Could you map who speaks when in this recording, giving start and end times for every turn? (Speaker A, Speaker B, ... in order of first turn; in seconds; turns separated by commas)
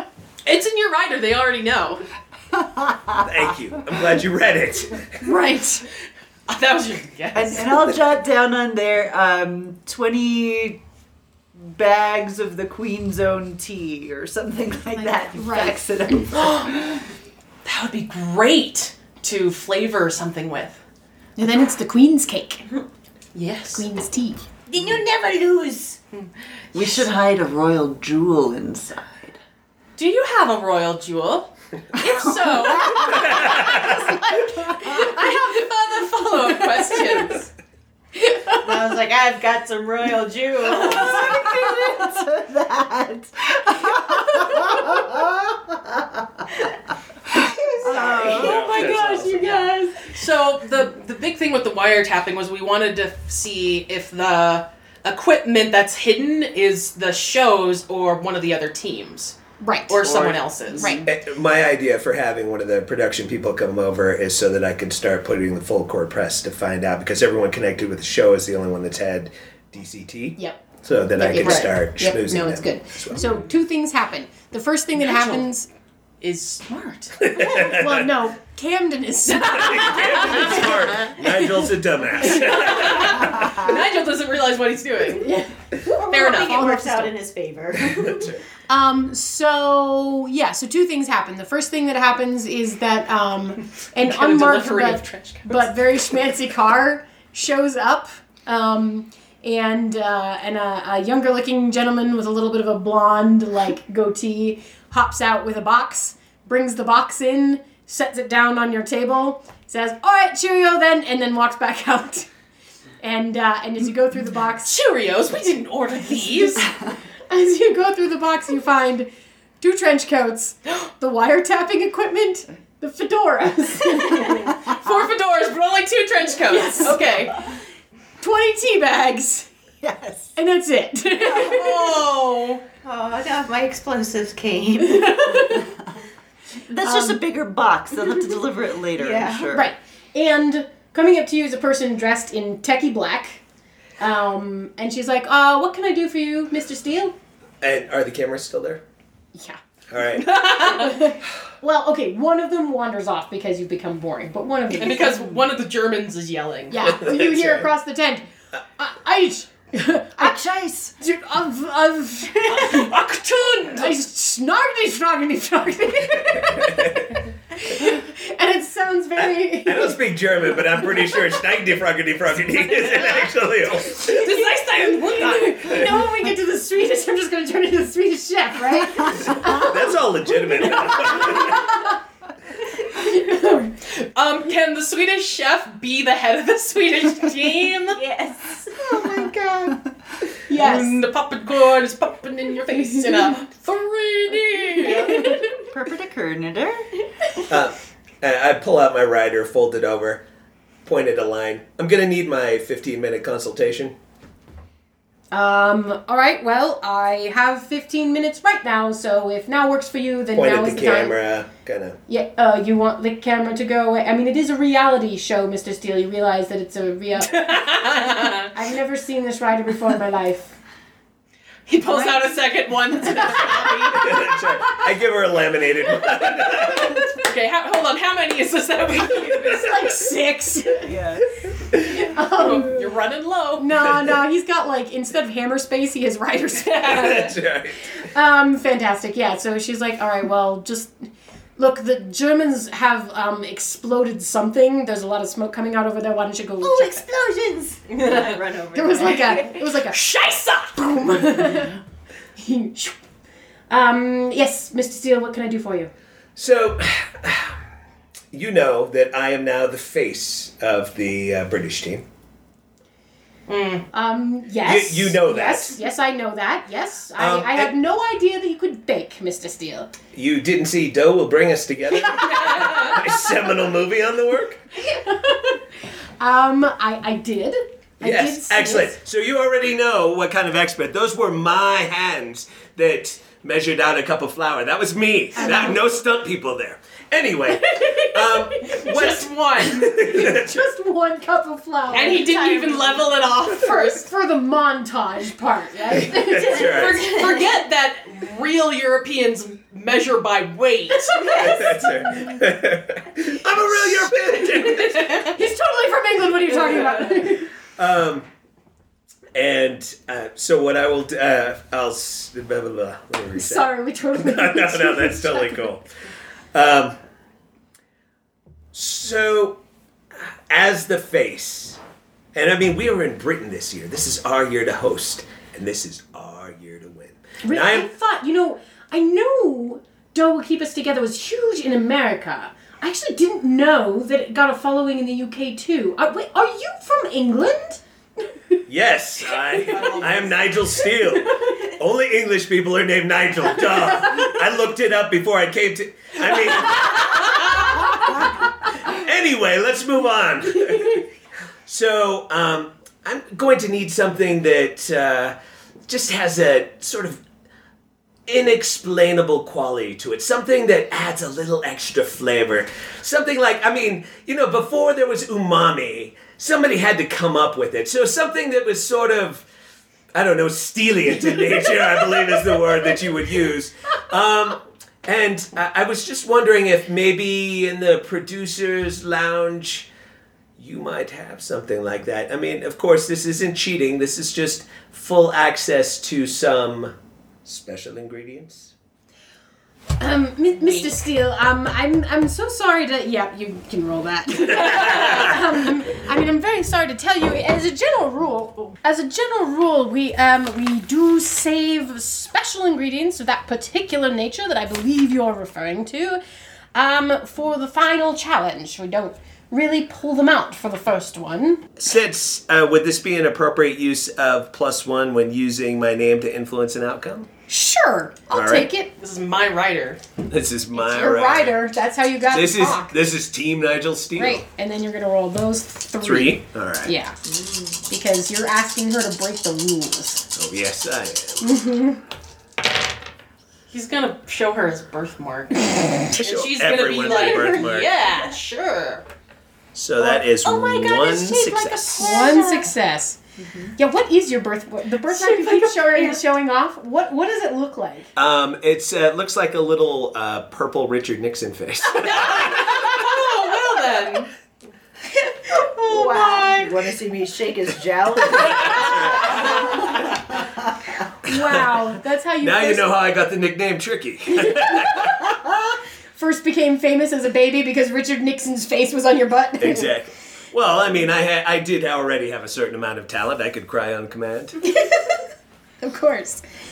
Speaker A: 0.5-2.0, Speaker B: 2.5-3.2, Speaker C: 3.2-5.1, Speaker D: 5.2-5.8, Speaker A: 6.5-7.9, Speaker B: 7.3-10.8, Speaker B: 11.6-16.9, Speaker D: 15.0-15.8, Speaker A: 16.3-17.1, Speaker A: 17.6-20.8, Speaker D: 21.4-22.7, Speaker A: 23.3-23.9, Speaker D: 23.7-24.5, Speaker E: 24.7-26.0, Speaker B: 26.7-29.4, Speaker A: 30.0-34.0, Speaker B: 32.5-33.6, Speaker C: 33.1-34.0, Speaker D: 34.0-35.6, Speaker A: 34.6-37.5, Speaker D: 36.5-37.3, Speaker D: 38.2-38.6, Speaker E: 38.6-41.7, Speaker B: 40.6-46.4, Speaker D: 44.1-44.8, Speaker D: 47.4-50.1, Speaker B: 47.8-48.8, Speaker E: 48.1-48.5, Speaker C: 48.3-49.7, Speaker A: 50.0-59.4, Speaker D: 59.6-60.0, Speaker A: 59.9-61.0, Speaker B: 60.0-61.1, Speaker D: 60.8-61.1, Speaker C: 61.0-73.2, Speaker D: 71.2-75.7, Speaker A: 71.4-71.7, Speaker A: 75.0-75.5, Speaker A: 76.2-77.2, Speaker C: 77.2-78.1, Speaker D: 77.3-81.7, Speaker A: 79.4-80.7, Speaker C: 79.5-83.6, Speaker D: 82.2-83.7, Speaker A: 82.2-85.3, Speaker D: 85.1-87.1, Speaker E: 85.9-88.3, Speaker A: 86.1-86.8, Speaker C: 87.9-88.4, Speaker D: 88.7-112.3, Speaker A: 94.0-95.7, Speaker D: 113.0-114.8, Speaker A: 114.7-116.7, Speaker D: 116.1-116.7, Speaker D: 117.3-119.1, Speaker D: 119.6-124.8, Speaker A: 124.7-127.3, Speaker D: 126.5-127.5, Speaker D: 128.2-129.5, Speaker B: 129.8-130.4, Speaker D: 130.4-131.9, Speaker A: 131.3-132.6, Speaker E: 132.8-135.6, Speaker D: 134.9-135.7, Speaker B: 136.7-139.7, Speaker D: 136.8-137.2, Speaker E: 139.0-139.5, Speaker D: 139.5-143.4, Speaker D: 144.0-147.2, Speaker C: 147.6-148.8, Speaker C: 149.9-150.5, Speaker A: 150.3-150.9, Speaker D: 150.3-155.3, Speaker A: 154.7-156.9, Speaker D: 156.7-160.4, Speaker C: 156.8-157.7, Speaker B: 160.2-160.9, Speaker D: 161.0-162.9, Speaker A: 162.5-163.9, Speaker D: 163.7-170.0, Speaker C: 166.4-167.1, Speaker C: 169.2-174.4, Speaker A: 174.1-175.8, Speaker D: 174.2-179.9, Speaker C: 179.1-181.7, Speaker D: 180.5-182.0, Speaker D: 182.8-183.8, Speaker A: 183.8-188.0, Speaker E: 187.9-189.8, Speaker B: 188.9-189.8, Speaker D: 190.5-191.0, Speaker A: 190.5-195.3, Speaker E: 194.8-195.6, Speaker B: 194.8-196.9, Speaker D: 194.8-195.4, Speaker C: 197.5-200.2, Speaker C: 200.8-203.9, Speaker D: 205.3-211.2, Speaker C: 210.3-212.0, Speaker D: 212.1-217.6, Speaker A: 217.3-218.5, Speaker D: 218.5-220.6, Speaker A: 221.7-224.0, Speaker D: 223.2-224.1, Speaker C: 223.9-227.0, Speaker A: 227.1-229.7, Speaker D: 229.5-230.9, Speaker B: 230.8-231.3, Speaker C: 231.7-232.1, Speaker D: 231.9-232.8, Speaker A: 232.3-233.7, Speaker D: 233.6-237.3, Speaker A: 236.6-237.3, Speaker C: 236.8-237.9, Speaker D: 238.1-241.1, Speaker D: 241.6-247.0, Speaker E: 246.6-249.5, Speaker A: 247.9-248.4, Speaker D: 248.7-250.0, Speaker A: 249.9-251.1, Speaker D: 250.8-251.8, Speaker D: 252.4-253.0, Speaker D: 253.7-255.9, Speaker C: 256.4-257.6, Speaker C: 258.3-262.0, Speaker A: 263.5-263.9, Speaker D: 263.9-269.9, Speaker C: 264.6-265.8, Speaker C: 267.2-267.7, Speaker C: 270.1-274.6, Speaker D: 272.0-273.2, Speaker A: 272.4-272.9, Speaker D: 274.8-275.6, Speaker D: 276.2-278.9, Speaker C: 278.0-290.6, Speaker D: 285.4-285.8, Speaker D: 287.5-288.9, Speaker A: 288.7-289.9, Speaker D: 289.9-292.3, Speaker A: 291.9-294.1, Speaker E: 292.1-293.1, Speaker D: 293.8-296.9, Speaker C: 295.9-297.1, Speaker E: 296.3-297.4, Speaker A: 296.5-301.2, Speaker D: 301.1-302.4, Speaker C: 301.3-305.3, Speaker D: 304.5-307.5, Speaker A: 304.9-305.3, Speaker C: 307.8-308.3, Speaker C: 309.3-315.8, Speaker D: 313.4-315.6, Speaker C: 316.5-317.0, Speaker C: 318.7-319.6, Speaker C: 320.1-321.8, Speaker C: 322.3-327.9, Speaker D: 327.4-337.8, Speaker C: 338.7-348.3, Speaker D: 339.5-340.1, Speaker C: 348.9-351.1, Speaker C: 351.7-355.4, Speaker C: 355.9-357.2, Speaker C: 358.3-369.5, Speaker C: 370.1-379.9, Speaker C: 380.6-386.9, Speaker C: 387.4-388.7, Speaker D: 390.0-406.2, Speaker C: 394.5-395.5, Speaker D: 406.7-411.6, Speaker C: 411.8-417.3, Speaker D: 417.5-418.9, Speaker C: 418.3-418.7, Speaker A: 419.0-420.0, Speaker C: 420.3-421.6, Speaker D: 420.7-422.9, Speaker C: 422.3-424.4, Speaker D: 424.2-427.2, Speaker C: 426.0-426.9, Speaker D: 427.9-430.2, Speaker C: 430.3-431.5, Speaker D: 431.4-432.0, Speaker A: 433.7-439.1, Speaker C: 436.1-437.9, Speaker C: 439.7-442.1, Speaker E: 440.4-442.7, Speaker D: 441.6-443.2, Speaker B: 443.4-443.7, Speaker D: 443.8-448.1, Speaker A: 445.1-446.2, Speaker C: 448.2-453.1, Speaker A: 451.9-454.3, Speaker D: 455.2-456.7, Speaker B: 455.8-461.0, Speaker C: 458.4-459.3, Speaker D: 458.9-459.9, Speaker D: 461.2-462.9, Speaker C: 461.3-461.9, Speaker C: 462.4-465.4, Speaker D: 464.4-465.5, Speaker D: 466.1-469.9, Speaker C: 469.6-474.6, Speaker D: 474.6-475.2, Speaker D: 475.8-476.4